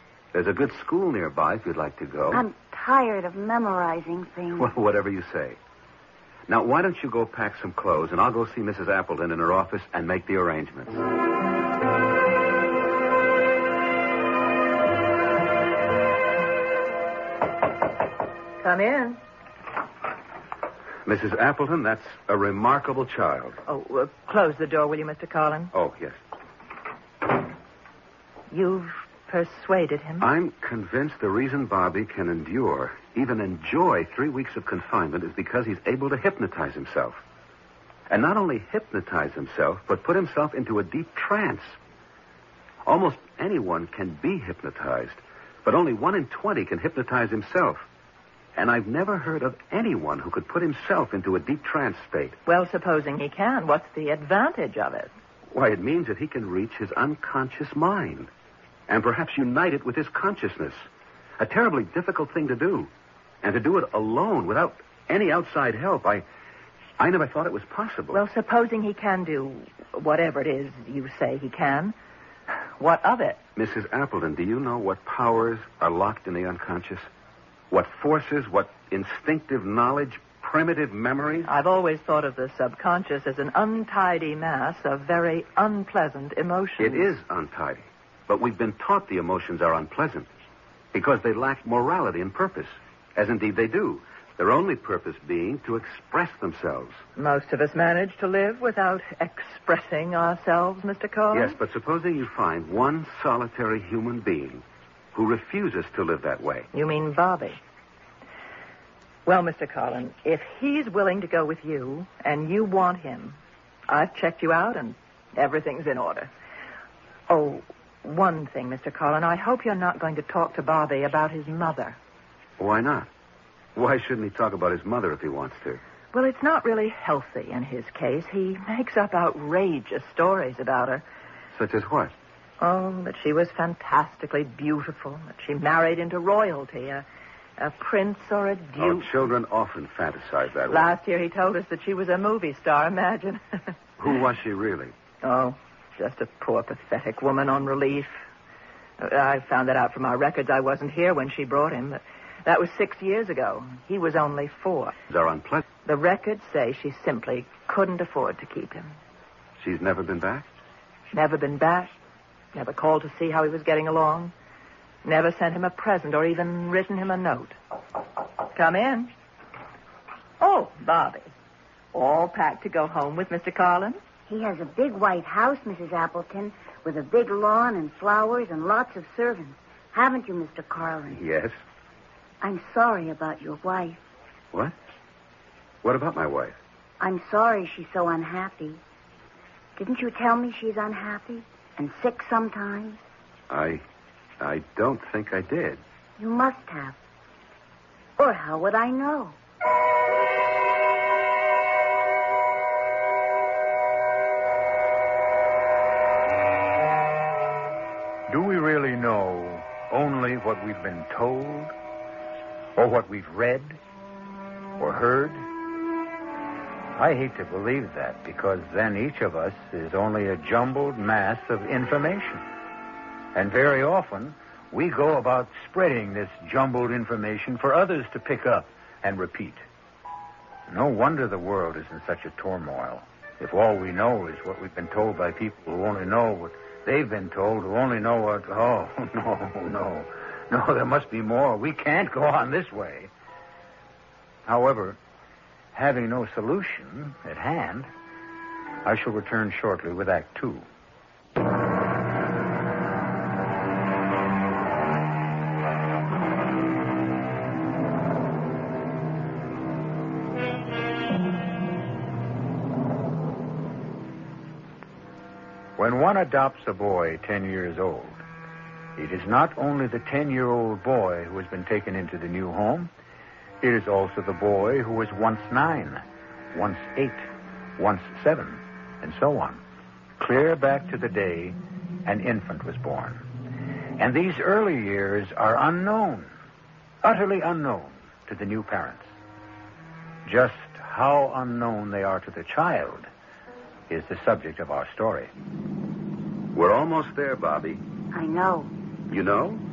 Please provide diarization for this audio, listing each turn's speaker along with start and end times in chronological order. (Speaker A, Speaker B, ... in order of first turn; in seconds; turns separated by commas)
Speaker A: 0.3-2.5, Speaker B: 2.3-4.7, Speaker A: 4.6-5.6, Speaker A: 6.5-11.0, Speaker C: 18.6-19.2, Speaker A: 21.1-23.6, Speaker C: 23.7-25.7, Speaker A: 25.7-26.2, Speaker C: 28.5-30.3, Speaker A: 30.2-37.2, Speaker A: 38.1-41.8, Speaker A: 42.9-47.9, Speaker A: 48.6-52.4, Speaker C: 52.5-55.1, Speaker A: 55.5-58.3, Speaker A: 58.9-60.9, Speaker A: 61.4-62.9, Speaker A: 63.4-66.2, Speaker A: 67.0-68.2, Speaker C: 68.1-72.0, Speaker C: 72.8-73.4, Speaker A: 73.6-77.1, Speaker A: 77.7-81.5, Speaker C: 81.5-87.1, Speaker A: 86.8-90.3, Speaker A: 90.9-97.0, Speaker C: 97.2-101.6, Speaker A: 101.3-104.6, Speaker A: 105.1-106.7, Speaker C: 106.7-107.6, Speaker C: 109.3-113.4, Speaker C: 113.9-116.3, Speaker C: 117.3-122.0, Speaker A: 122.6-123.1, Speaker A: 123.8-125.8, Speaker C: 126.1-131.0, Speaker A: 131.6-132.1, Speaker C: 132.6-137.1, Speaker C: 137.6-139.1, Speaker A: 138.8-141.0, Speaker C: 140.7-143.7, Speaker A: 144.0-144.9, Speaker C: 145.2-148.2, Speaker C: 149.0-154.9, Speaker A: 155.1-155.6, Speaker C: 155.9-158.9, Speaker A: 159.6-160.5, Speaker C: 161.1-161.9, Speaker C: 162.5-164.3, Speaker C: 165.1-167.6, Speaker C: 168.5-169.1, Speaker C: 170.4-171.3, Speaker C: 171.9-174.0, Speaker B: 174.3-181.2, Speaker A: 181.1-181.6, Speaker B: 182.4-184.0, Speaker A: 185.8-186.6, Speaker B: 187.0-188.8, Speaker B: 189.8-193.0, Speaker A: 193.5-193.8, Speaker A: 194.4-195.8, Speaker B: 196.2-197.0, Speaker B: 198.2-199.4, Speaker D: 208.3-211.7, Speaker D: 212.8-213.8, Speaker D: 214.8-215.5, Speaker D: 217.0-222.5, Speaker D: 223.3-229.6, Speaker D: 230.7-243.1, Speaker D: 244.5-245.0, Speaker D: 245.7-247.9, Speaker D: 248.8-250.7, Speaker D: 265.8-268.2, Speaker D: 269.0-272.9, Speaker D: 273.6-277.2, Speaker D: 277.8-279.6, Speaker D: 280.2-283.3, Speaker D: 284.0-286.3, Speaker D: 287.0-289.1, Speaker D: 290.3-293.1, Speaker D: 293.9-295.3, Speaker A: 296.5-297.8, Speaker B: 298.1-298.7, Speaker A: 299.1-299.6